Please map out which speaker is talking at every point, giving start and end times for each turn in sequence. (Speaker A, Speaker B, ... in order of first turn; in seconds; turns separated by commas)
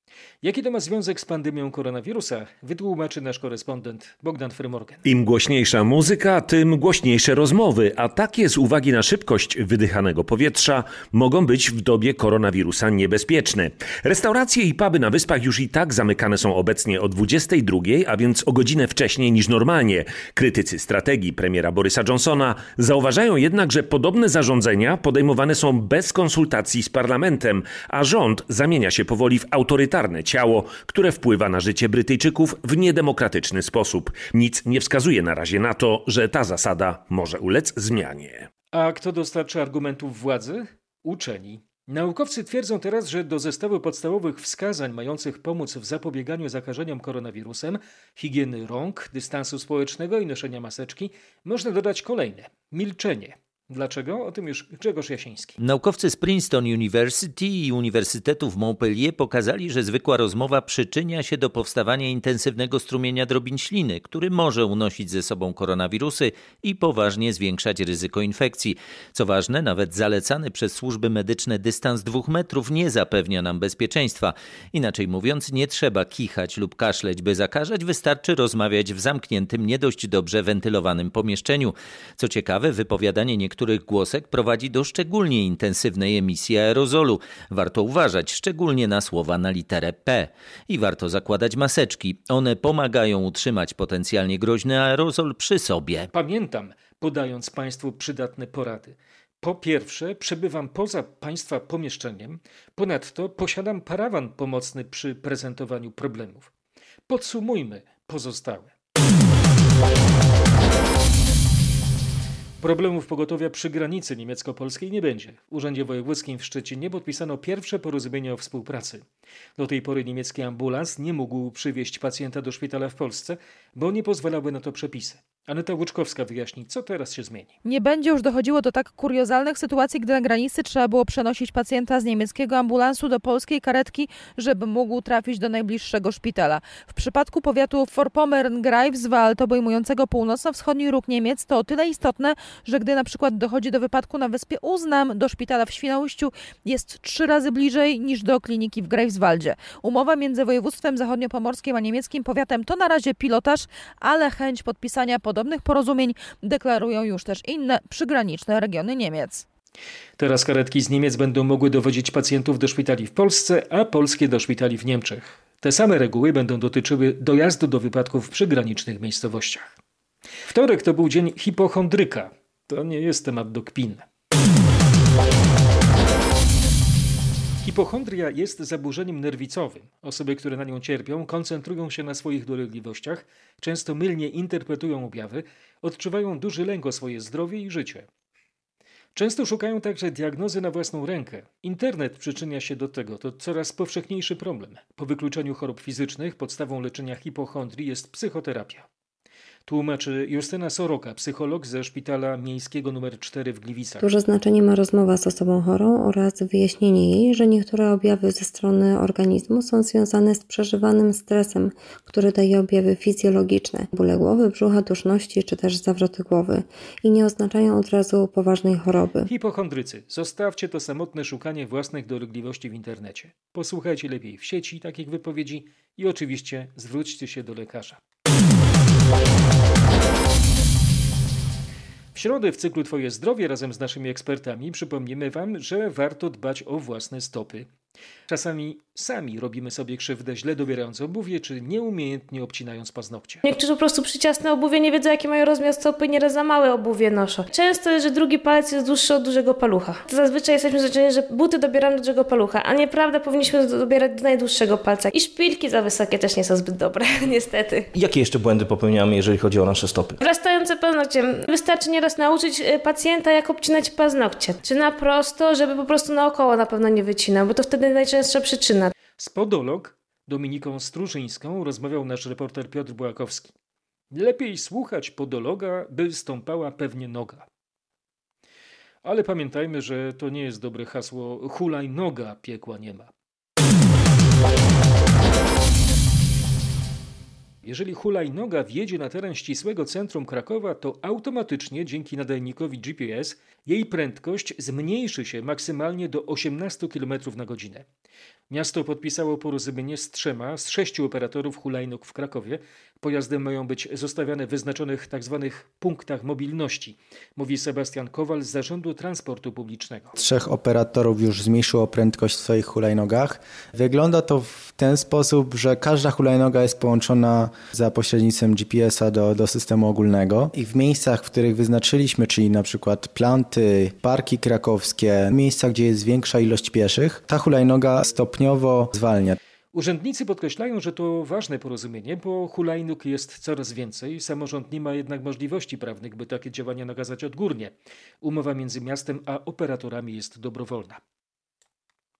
Speaker A: 0.4-5.0, Speaker B: 5.0-38.5, Speaker A: 38.7-55.6, Speaker C: 55.6-96.1, Speaker A: 96.1-106.5, Speaker A: 107.1-108.7, Speaker A: 112.6-119.0, Speaker A: 119.6-127.5, Speaker D: 127.6-159.4, Speaker A: 160.2-169.7, Speaker A: 170.5-174.1, Speaker A: 177.6-188.1, Speaker A: 189.1-198.8, Speaker A: 199.7-204.1, Speaker E: 204.0-219.3, Speaker A: 219.3-228.0, Speaker A: 232.1-237.7, Speaker A: 238.3-243.4, Speaker F: 243.4-257.9, Speaker G: 257.9-260.1, Speaker F: 260.2-268.9, Speaker A: 269.2-273.5, Speaker A: 274.1-277.4, Speaker A: 279.0-283.1, Speaker A: 287.6-297.9, Speaker A: 298.5-310.1, Speaker H: 310.1-329.4, Speaker A: 329.7-341.0